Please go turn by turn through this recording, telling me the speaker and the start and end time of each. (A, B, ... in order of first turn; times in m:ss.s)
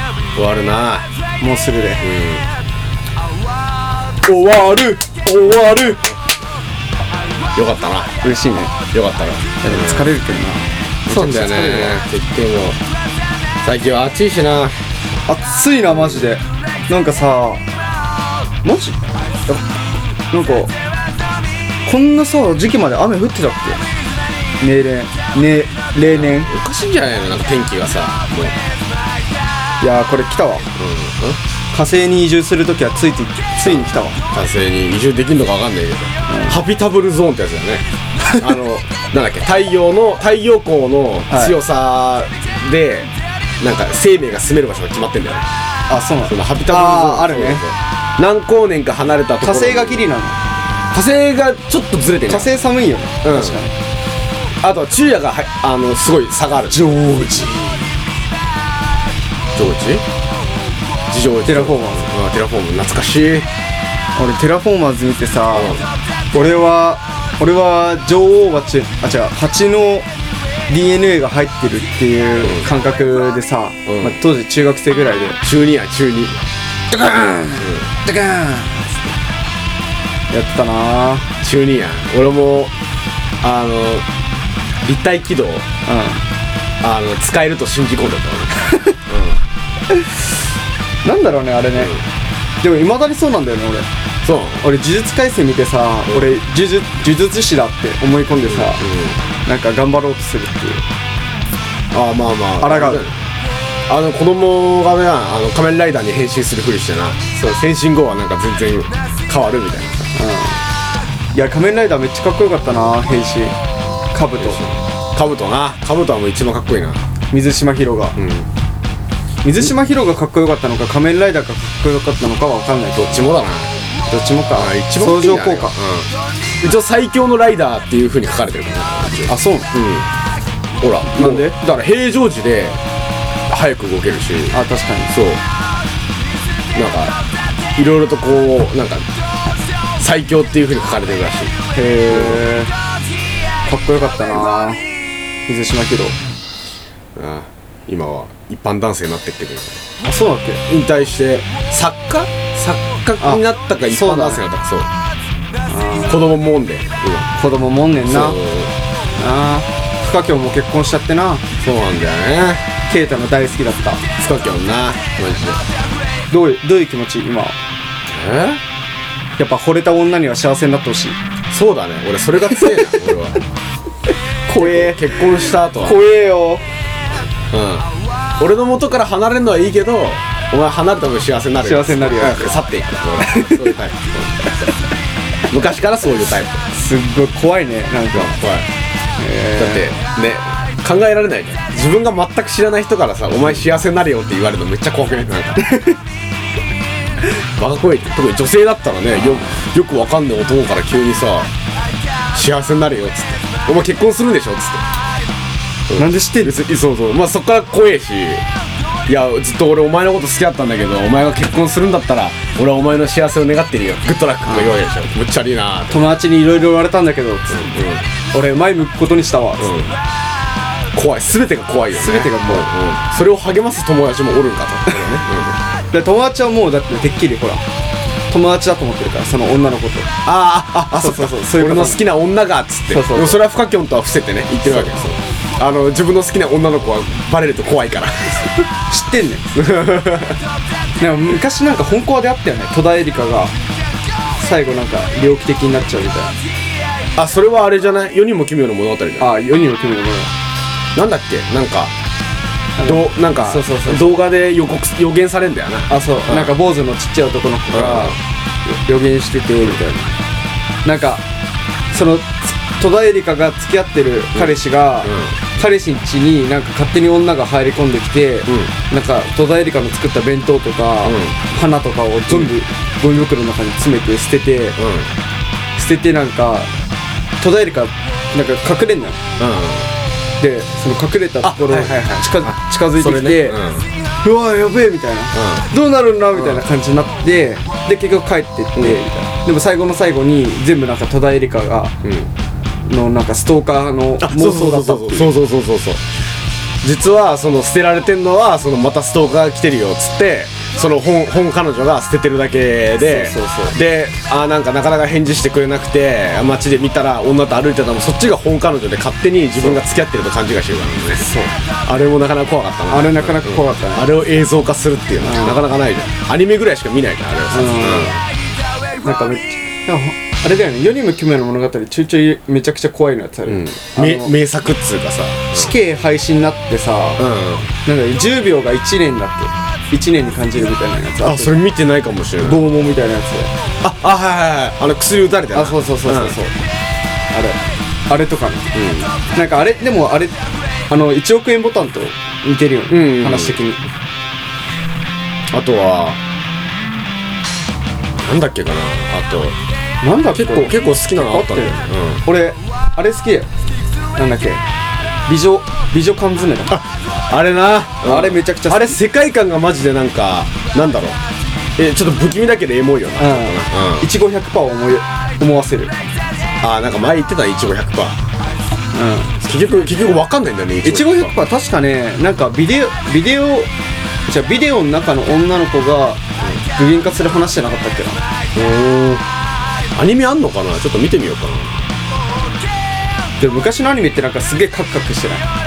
0:00.3-0:01.1 A
0:01.4-0:02.0 B
0:02.0-0:02.4 A
0:04.2-0:06.1 B
0:07.5-0:08.2 A
0:08.2-0:08.7 B
0:08.9-0:10.1 A
0:09.6-0:12.0 B
0:11.1-0:12.8 A
0:13.6-0:14.8 A
0:15.3-0:17.6 B
0:15.9-0:16.3 A
0:18.6-0:19.6 B
0:20.3-0:20.7 B
0:21.8-0:23.8 B
0:24.6-0:26.5 B
0:26.0-0:28.5 A
0:29.8-0:30.7 B
0:30.7-0:31.4 A
0:31.7-0:34.2 B
0:33.6-0:37.8 A
0:36.3-0:36.6 B
0:38.4-0:45.5 A
0:41.3-0:41.6 B
0:45.9-0:47.6 B
0:46.2-0:50.1 A
0:49.4-0:50.4 B
0:50.9-0:52.5 A
0:52.3-0:53.7 B
0:53.2-0:53.6 A
0:54.6-0:57.0 A
0:56.7-0:57.9 B
0:59.5-1:00.0 A
1:01.1-1:03.5 A
1:01.4-1:02.1 B
1:04.2-1:10.1 B
1:05.5-1:05.9 A
1:10.7-1:15.4 B
1:13.8-1:14.2 A
1:15.4-1:16.4 A
1:16.9-1:19.1 B
1:17.6-1:17.9 A
1:20.3-1:21.3 B
1:21.4-1:22.7 A
1:23.4-1:24.0 A
1:24.8-1:25.6 A
1:25.8-1:26.2 B
1:26.8-1:29.4 A
1:31.0-1:31.9 B
1:31.8-1:32.0 A
1:32.6-1:33.9 B
1:34.2-1:34.6 A
1:34.6-1:38.8 B
1:38.4-1:39.2 A
1:39.4-1:40.8 B
1:41.9-1:43.2 A
1:42.6-1:43.0 B
1:43.9-1:50.1 A
1:50.1-1:50.6 B
1:51.3-1:53.6 B
1:54.1-1:54.6 B
1:54.4-1:57.0 A
1:57.3-1:58.2 B
1:58.2-1:58.5 A
1:59.4-2:03.3 B
2:02.9-2:03.8 A
2:04.1-2:05.8 B
2:04.5-2:06.1 A
2:06.6-2:10.1 A
2:09.3-2:09.7 B
2:10.8-2:12.8 A
2:11.1-2:11.6 B
2:13.5-2:15.4 A
2:14.5-2:15.1 B
2:16.7-2:17.2 A
2:17.8-2:19.1 A
2:20.0-2:21.5 A
2:21.7-2:22.7 B
2:22.1-2:22.4 A
2:23.6-2:24.8 B
2:25.5-2:26.2 B
2:27.1-2:29.8 A
2:30.0-2:30.6 B
2:30.7-2:34.9 A
2:33.2-2:34.4 B
2:35.6-2:36.3 B
2:36.1-2:37.3 A
2:37.3-2:38.4 B
2:38.0-2:38.7 A
2:39.2-2:41.4 B
2:41.6-2:42.6 A
2:42.9-2:44.0 B
2:44.2-2:45.6 A
2:46.3-2:47.6 B
2:48.1-2:48.6 A
2:49.4-2:51.2 B
2:51.5-2:53.4 A
2:54.5-2:56.6 B
2:54.5-2:56.0 A
2:57.5-2:57.9 A
2:58.4-3:04.7 A
3:01.6-3:02.5 B
3:03.2-3:03.8 B
3:05.5-3:06.6 A
3:06.7-3:08.3 B
3:08.1-3:08.7 A
3:09.2-3:09.9 B
3:09.6-3:15.6 A
3:15.6-3:16.0 B
3:17.6-3:21.5 A
3:19.2-3:19.6 B
3:22.3-3:24.8 A
3:25.9-3:28.4 A
3:25.9-3:26.6 B
3:29.1-3:36.0 A
3:35.9-3:37.7 B
3:37.5-3:38.1 A
3:38.3-3:39.8 B
3:39.6-3:39.9 A
3:40.9-3:45.6 A
3:41.9-3:42.7 B
3:45.9-3:47.6 B
3:48.3-3:50.1 B
3:50.2-3:58.5 A
3:50.9-3:52.0 B
3:52.9-3:53.4 B
3:54.6-3:55.0 B
3:58.9-3:59.5 B
3:59.5-4:00.4 A
4:01.0-4:03.5 B
4:04.4-4:06.3 B
4:07.2-4:09.3 A
4:09.2-4:10.3 B
4:10.9-4:11.9 A
4:12.8-4:14.2 B
4:12.8-4:16.5 A
4:15.9-4:20.2 B
4:17.7-4:18.2 A
4:20.8-4:21.2 B
4:21.9-4:34.8 B
4:24.3-4:25.4 A
4:28.5-4:28.7 A
4:31.0-4:31.4 A
4:34.8-4:35.1 A
4:35.8-4:36.7 B
4:37.4-4:39.2 B
4:39.4-4:39.9 A
4:40.4-4:43.6 B
4:41.4-4:43.9 A
4:44.2-4:51.9 B
4:45.3-4:45.7 A
4:46.3-4:46.6 A
4:48.8-4:49.0 A
4:52.0-4:52.3 A
4:52.8-4:55.3 B
4:54.2-4:56.0 A
4:56.8-5:11.3 A
5:03.0-5:03.7 B
5:11.2-5:11.5 B
5:11.8-5:18.2 A
5:12.9-5:14.2 B
5:15.2-5:15.6 B
5:17.5-5:18.1 B
5:19.0-5:24.3 B
5:23.4-5:25.7 A
5:25.5-5:27.2 B
5:27.2-5:27.7 A
5:27.8-5:31.5 B
5:31.2-5:32.6 A
5:32.4-5:33.5 B
5:33.8-5:36.4 A
5:35.5-5:36.5 B
5:37.3-5:38.7 B
5:38.7-5:39.1 A
5:39.3-5:40.4 B
5:40.9-5:43.8 B
5:42.9-5:43.6 A
5:45.5-5:46.2 A
5:48.2-5:49.6 A
5:50.0-5:53.5 B
5:50.3-5:52.2 A
5:54.1-5:54.6 B
5:55.2-5:56.8 B
5:56.7-6:01.2 A
5:58.0-5:59.0 B
6:01.8-6:04.1 A
6:03.2-6:05.9 B
6:06.6-6:08.2 A
6:08.9-6:09.4 B
6:09.4-6:11.3 A
6:10.8-6:13.7 B
6:14.3-6:16.2 B
6:16.7-6:18.2 B
6:18.5-6:19.2 A
6:19.9-6:21.8 A
6:23.4-6:25.4 B